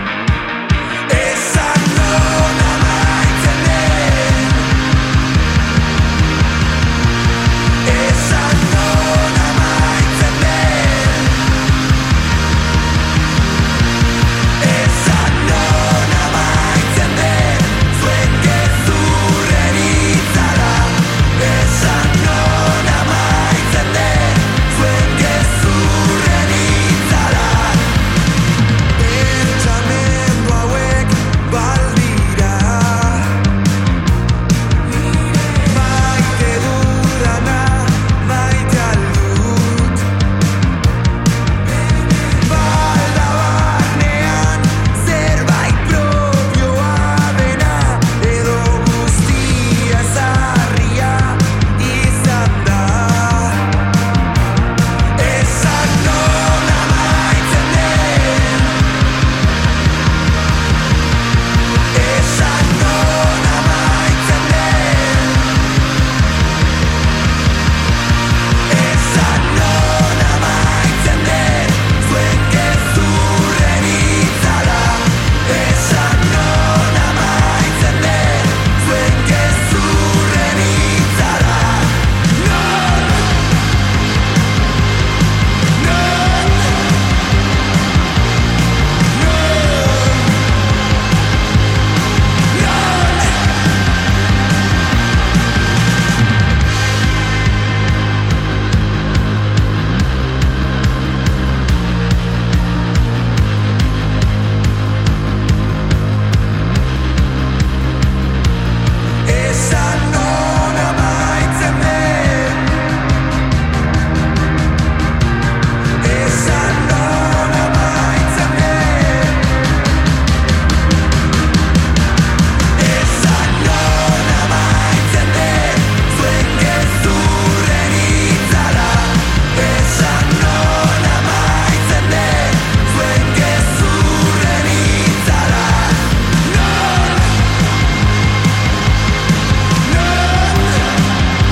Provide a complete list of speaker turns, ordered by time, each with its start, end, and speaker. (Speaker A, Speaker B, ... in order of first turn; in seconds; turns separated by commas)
Speaker A: 1.1-4.7, Speaker A: 7.8-11.4, Speaker A: 14.6-27.9, Speaker A: 28.9-33.3, Speaker A: 35.2-40.0, Speaker A: 41.6-53.6, Speaker A: 55.1-58.8, Speaker A: 61.9-65.6, Speaker A: 68.7-83.2, Speaker A: 85.8-86.8, Speaker A: 89.1-90.2, Speaker A: 92.5-93.3, Speaker A: 109.2-112.8, Speaker A: 116.0-119.5, Speaker A: 122.8-137.2, Speaker A: 139.8-140.9